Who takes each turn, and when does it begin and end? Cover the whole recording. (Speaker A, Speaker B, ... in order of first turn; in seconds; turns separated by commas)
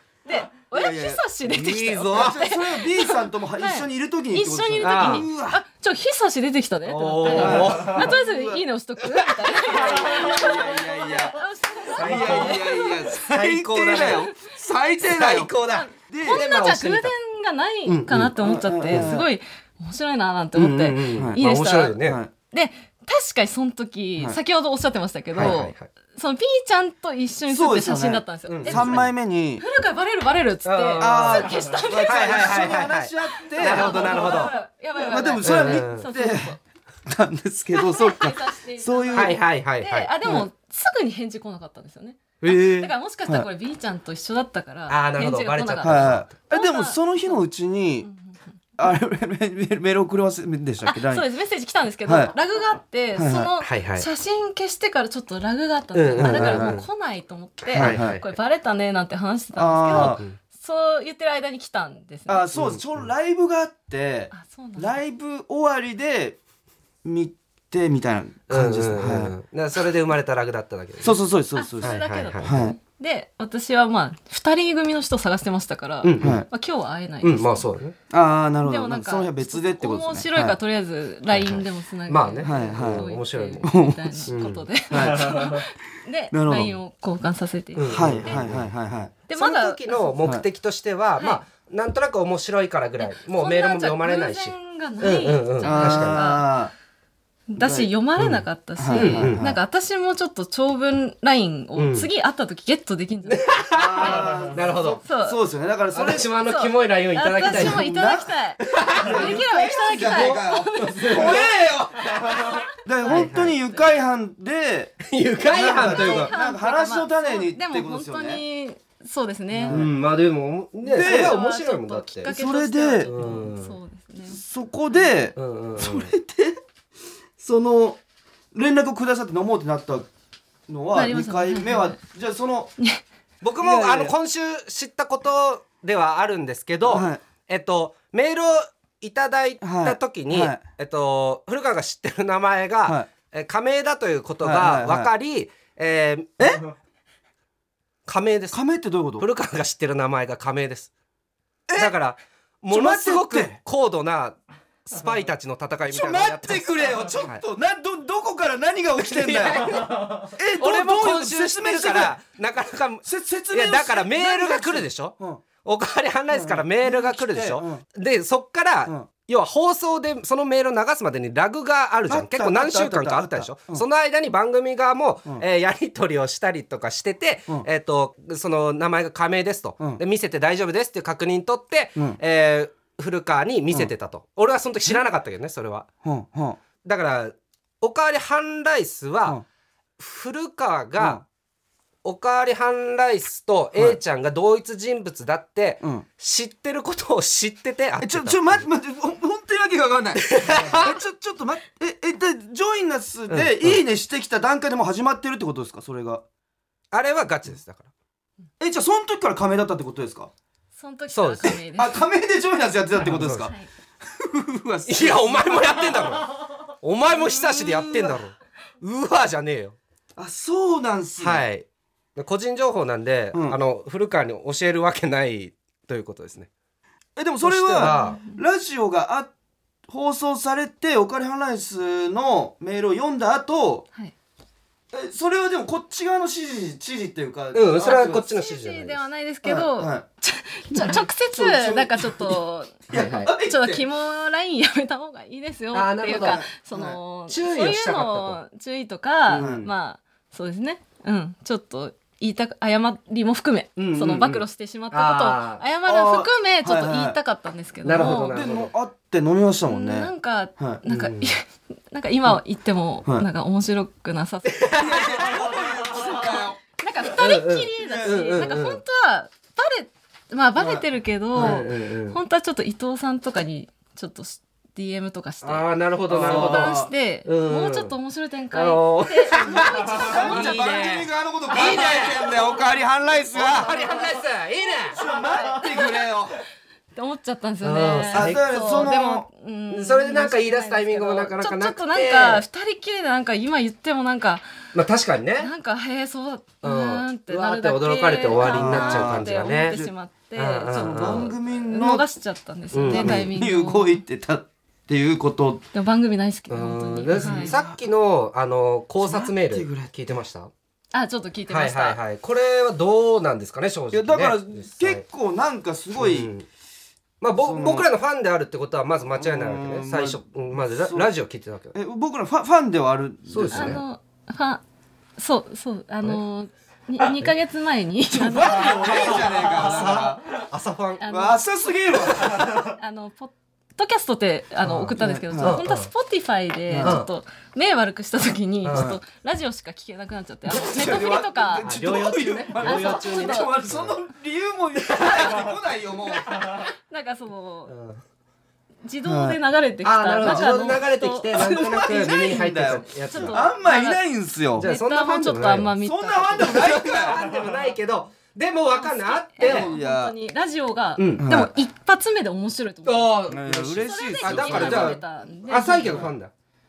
Speaker A: 0.2-13.1, Speaker B: 0.7-1.2, Speaker C: 1.4-2.4, Speaker B: 2.1-5.6, Speaker C: 4.8-5.3, Speaker C: 6.8-8.1, Speaker B: 7.3-8.6, Speaker B: 9.7-11.4, Speaker C: 9.7-10.4, Speaker B: 11.9-16.4, Speaker C: 11.9-14.3, Speaker C: 15.0-17.1, Speaker A: 15.6-22.0, Speaker C: 17.9-18.3, Speaker B: 18.1-19.3, Speaker C: 18.9-19.1, Speaker C: 20.5-22.2, Speaker B: 21.1-21.4, Speaker B: 22.0-22.3, Speaker A: 22.5-29.1, Speaker C: 25.4-25.9, Speaker B: 27.5-29.6, Speaker C: 28.5-29.1, Speaker A: 29.6-32.9, Speaker C: 30.6-34.5, Speaker B: 31.0-39.4, Speaker A: 33.5-36.6, Speaker C: 35.4-36.1, Speaker A: 37.7-47.4, Speaker C: 39.1-40.4, Speaker C: 42.4-42.9, Speaker C: 44.9-46.3, Speaker B: 45.8-48.1, Speaker A: 48.0-48.4, Speaker B: 48.8-51.2, Speaker A: 50.9-62.5, Speaker B: 52.0-52.3, Speaker B: 53.1-53.5, Speaker C: 53.6-54.0, Speaker C: 55.9-56.8, Speaker B: 56.2-56.8, Speaker B: 57.7-58.2, Speaker C: 57.7-58.3, Speaker B: 59.5-60.2, Speaker C: 59.9-60.4, Speaker B: 62.3-66.4, Speaker C: 62.5-62.8, Speaker A: 64.3-65.0, Speaker B: 67.0-69.3, Speaker C: 68.5-71.2, Speaker B: 71.0-72.8, Speaker A: 71.5-77.7, Speaker C: 71.8-72.6, Speaker C: 76.0-76.4, Speaker B: 76.2-76.5, Speaker C: 77.2-77.9, Speaker B: 78.1-80.6, Speaker A: 78.6-88.5, Speaker C: 81.3-83.7, Speaker B: 82.4-83.1, Speaker B: 83.6-84.3, Speaker C: 84.3-84.6, Speaker B: 84.9-85.6, Speaker B: 86.3-86.8, Speaker C: 87.7-88.7, Speaker B: 87.9-89.1, Speaker A: 89.3-90.2, Speaker C: 89.3-96.2, Speaker A: 91.2-91.4, Speaker A: 93.0-96.5, Speaker B: 95.6-96.7, Speaker A: 97.5-103.5, Speaker B: 97.6-97.9, Speaker C: 98.2-99.4, Speaker B: 98.8-99.6, Speaker C: 101.8-102.1, Speaker C: 103.3-105.0, Speaker B: 103.7-106.3, Speaker A: 105.0-105.4, Speaker C: 105.9-107.8, Speaker A: 106.4-111.5, Speaker B: 107.4-108.3, Speaker C: 108.6-109.4, Speaker B: 108.9-112.0, Speaker C: 110.0-113.6, Speaker A: 112.3-113.8, Speaker B: 112.8-118.4, Speaker C: 115.0-116.3, Speaker A: 115.7-119.9, Speaker B: 119.5-119.9, Speaker C: 119.7-122.3, Speaker A: 120.8-124.4, Speaker B: 120.9-121.4, Speaker B: 122.3-123.1, Speaker C: 123.0-123.7, Speaker B: 124.3-126.6, Speaker C: 125.3-126.1, Speaker B: 127.4-128.0, Speaker B: 128.5-130.1, Speaker B: 130.7-132.7, Speaker A: 130.9-132.0, Speaker C: 133.4-146.6, Speaker B: 133.6-134.1, Speaker B: 136.8-137.2, Speaker B: 139.6-140.6, Speaker B: 144.4-145.1, Speaker C: 148.1-148.6, Speaker B: 148.5-149.2, Speaker C: 149.2-150.9, Speaker B: 151.7-151.9, Speaker C: 151.8-157.4, Speaker B: 152.7-153.6, Speaker B: 155.9-162.2, Speaker C: 159.0-185.9, Speaker B: 163.0-165.4, Speaker B: 166.3-167.8, Speaker B: 172.1-173.8, Speaker B: 186.0-186.6, Speaker C: 186.8-189.4, Speaker C: 190.0-191.2, Speaker B: 191.0-191.2, Speaker C: 192.0-198.6, Speaker B: 198.0-206.2, Speaker C: 200.2-201.0, Speaker C: 203.3-203.8, Speaker C: 206.9-207.9, Speaker B: 208.6-210.3, Speaker A: 210.8-212.0, Speaker C: 211.1-211.6, Speaker B: 211.4-216.2, Speaker C: 213.1-213.5, Speaker A: 213.3-213.7, Speaker C: 214.8-219.8, Speaker B: 217.1-218.2, Speaker B: 220.2-221.4, Speaker C: 221.2-221.6, Speaker C: 222.2-226.5, Speaker B: 223.3-223.6, Speaker B: 227.2-229.3, Speaker C: 227.4-228.2, Speaker A: 227.8-228.4, Speaker B: 229.9-233.8, Speaker B: 234.9-238.3, Speaker C: 237.5-239.0, Speaker A: 237.9-258.5, Speaker B: 239.4-240.0, Speaker B: 240.8-243.8, Speaker C: 242.9-243.3, Speaker C: 245.7-246.4, Speaker B: 246.1-247.0, Speaker C: 247.3-248.4, Speaker C: 249.3-249.5, Speaker B: 249.3-249.7, Speaker C: 253.8-255.6, Speaker B: 255.8-257.2, Speaker C: 257.8-258.7, Speaker B: 257.9-260.8, Speaker A: 259.7-265.2, Speaker C: 260.9-261.3, Speaker C: 264.4-266.4, Speaker B: 264.8-266.6, Speaker A: 266.8-280.8, Speaker C: 267.1-268.8, Speaker B: 267.8-268.5, Speaker B: 270.6-271.6, Speaker C: 271.4-272.2, Speaker C: 275.4-277.9, Speaker B: 276.1-276.9, Speaker C: 278.5-282.5, Speaker B: 279.4-284.0, Speaker C: 283.3-285.0, Speaker B: 284.9-286.4, Speaker A: 285.3-285.9, Speaker A: 286.9-294.4, Speaker C: 287.6-288.9, Speaker B: 288.1-289.2, Speaker C: 289.7-292.4, Speaker C: 294.7-295.5, Speaker A: 295.4-304.0, Speaker C: 296.6-301.3, Speaker B: 298.4-299.9, Speaker B: 300.8-302.1, Speaker C: 302.7-303.3, Speaker B: 302.9-305.6, Speaker A: 305.7-307.6, Speaker C: 306.5-310.5, Speaker B: 307.1-307.8, Speaker B: 309.0-310.1, Speaker A: 310.9-312.0, Speaker C: 311.5-315.0, Speaker B: 313.9-316.3, Speaker C: 316.0-316.4, Speaker C: 317.2-321.7, Speaker B: 317.4-317.9, Speaker B: 319.1-321.1, Speaker B: 321.7-323.8, Speaker C: 323.3-323.8, Speaker A: 323.5-324.6, Speaker A: 325.2-329.0, Speaker B: 328.2-330.2, Speaker C: 328.6-331.0, Speaker A: 331.0-331.4, Speaker B: 331.1-332.7, Speaker A: 332.4-341.7, Speaker C: 334.6-335.9, Speaker B: 334.9-335.6, Speaker B: 336.7-337.0, Speaker C: 336.8-337.1, Speaker C: 338.6-338.9, Speaker B: 338.7-339.0, Speaker B: 340.5-346.3, Speaker C: 341.6-344.0, Speaker A: 342.5-343.5, Speaker C: 344.9-345.5, Speaker A: 346.4-347.7, Speaker C: 347.7-348.0, Speaker A: 348.8-354.0, Speaker B: 349.0-349.4, Speaker C: 349.8-353.4, Speaker B: 350.2-350.6, Speaker B: 351.3-354.7, Speaker A: 354.6-356.9, Speaker C: 354.6-355.8, Speaker B: 355.8-357.2, Speaker C: 356.4-359.7, Speaker A: 358.7-366.1, Speaker B: 359.4-360.1, Speaker C: 361.0-361.3, Speaker B: 361.1-361.5, Speaker C: 362.8-366.3, Speaker B: 363.3-365.0, Speaker B: 365.8-366.1